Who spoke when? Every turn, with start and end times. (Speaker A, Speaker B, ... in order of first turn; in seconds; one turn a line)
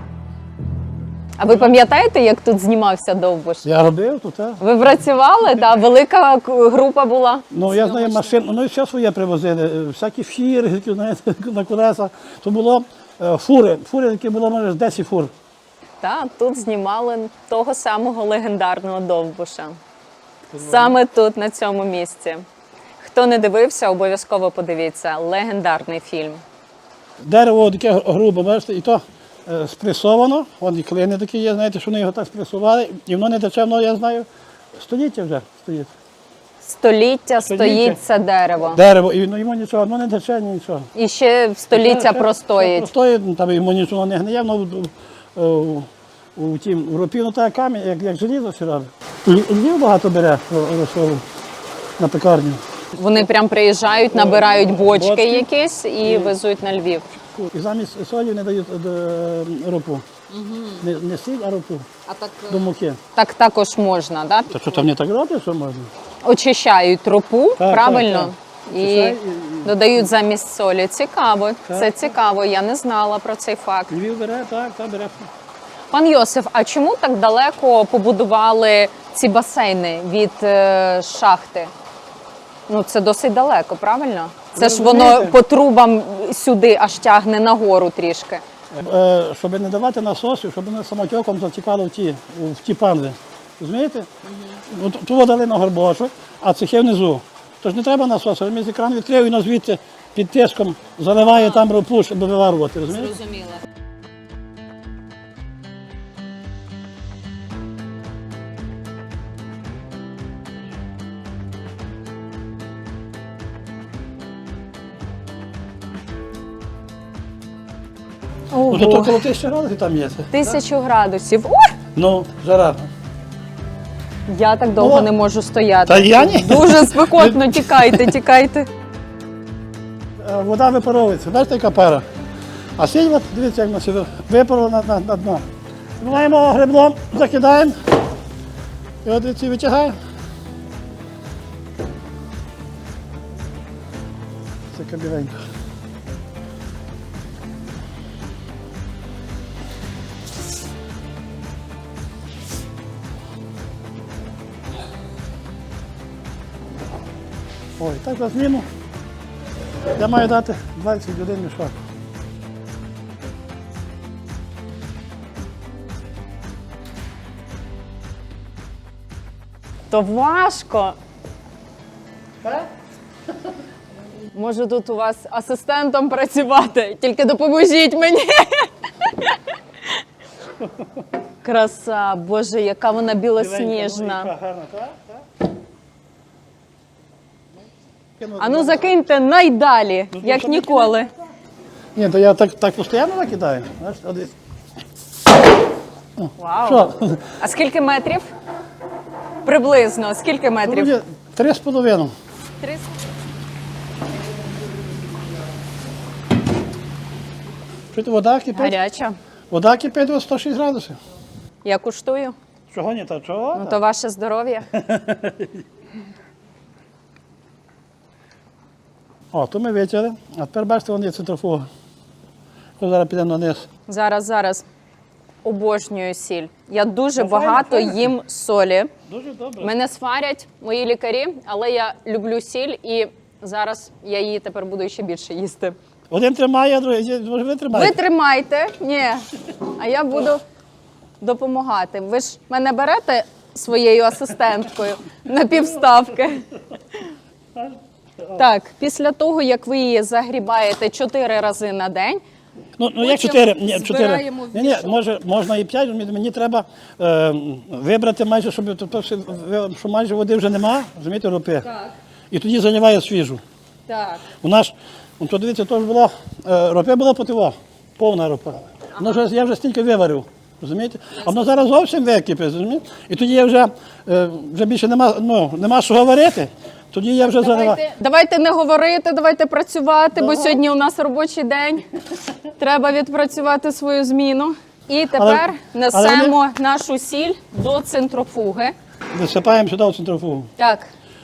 Speaker A: 1.4-3.7
Speaker B: 1.5-1.7
Speaker B: 3.6-4.6
Speaker A: 4.6-8.5
Speaker B: 7.5-15.3
Speaker A: 16.0-19.8
Speaker B: 20.5-21.0
Speaker A: 20.6-22.5
Speaker A: 23.0-26.4
Speaker B: 27.2-35.9
Speaker A: 36.6-38.8
Speaker B: 37.5-38.0
Speaker B: 38.7-40.9
Speaker A: 41.0-42.9
Speaker B: 41.7-51.2
Speaker B: 52.0-52.6
Speaker A: 52.9-57.1
Speaker B: 54.1-55.5
Speaker B: 56.0-56.3
Speaker B: 57.3-60.1
Speaker A: 60.3-60.9
Speaker B: 60.8-61.9
Speaker A: 62.1-64.8
Speaker B: 62.5-63.0
Speaker B: 64.5-65.9
Speaker A: 66.2-73.9
Speaker B: 67.6-70.1
Speaker B: 71.7-71.9
Speaker B: 73.9-75.3
Speaker A: 75.9-81.7
Speaker A: 82.7-88.4
Speaker B: 84.5-85.4
Speaker B: 88.7-94.1
Speaker A: 94.2-94.6
Speaker B: 94.7-103.2
Speaker A: 101.3-101.6
Speaker A: 102.9-103.6
Speaker A: 118.5-119.2
Speaker B: 118.7-120.6
Speaker A: 120.3-121.8
Speaker B: 122.0-122.9
Speaker A: 124.3-128.7
Speaker B: 124.8-125.1
Speaker B: 125.9-128.1
Speaker B: 130.2-132.1
Speaker B: 132.8-135.4
Speaker B: 136.0-137.8
Speaker B: 139.1-139.9
Speaker B: 144.7-145.4
Speaker B: 157.8-158.7
Speaker B: 159.9-161.8
Speaker A: 169.9-171.0
Speaker B: 172.4-172.7
Speaker A: 174.3-179.4
Speaker A: 181.4-184.3
Speaker B: 183.4-185.2
Speaker B: 188.2-188.9
Speaker A: 188.4-191.1
Speaker B: 190.1-191.0
Speaker B: 191.9-194.3
Speaker B: 196.2-197.3
Speaker A: 196.4-198.3
Speaker A: 199.4-200.9
Speaker B: 200.6-202.1
Speaker A: 202.6-202.9
Speaker B: 207.9-208.8
Speaker A: 208.6-209.2
Speaker B: 209.5-211.0
Speaker A: 211.6-212.4
Speaker B: 212.7-213.8
Speaker A: 213.6-214.7
Speaker B: 214.7-215.6
Speaker B: 219.3-221.7
Speaker B: 222.8-223.7
Speaker A: 223.9-224.7
Speaker A: 225.4-228.9
Speaker B: 227.2-228.0
Speaker B: 229.1-229.7
Speaker A: 229.6-235.8
Speaker B: 236.1-238.0
Speaker A: 237.7-240.4
Speaker A: 241.2-247.1
Speaker B: 247.6-248.4
Speaker A: 248.3-252.2
Speaker B: 252.8-261.7
Speaker A: 253.0-255.0
Speaker A: 261.6-261.9
Speaker B: 262.3-263.4
Speaker A: 263.9-264.2
Speaker B: 264.4-277.8
Speaker A: 277.3-281.8
Speaker B: 280.2-280.6
Speaker A: 282.6-288.8
Speaker B: 285.2-286.4
Speaker B: 289.1-290.5
Speaker A: 290.6-290.9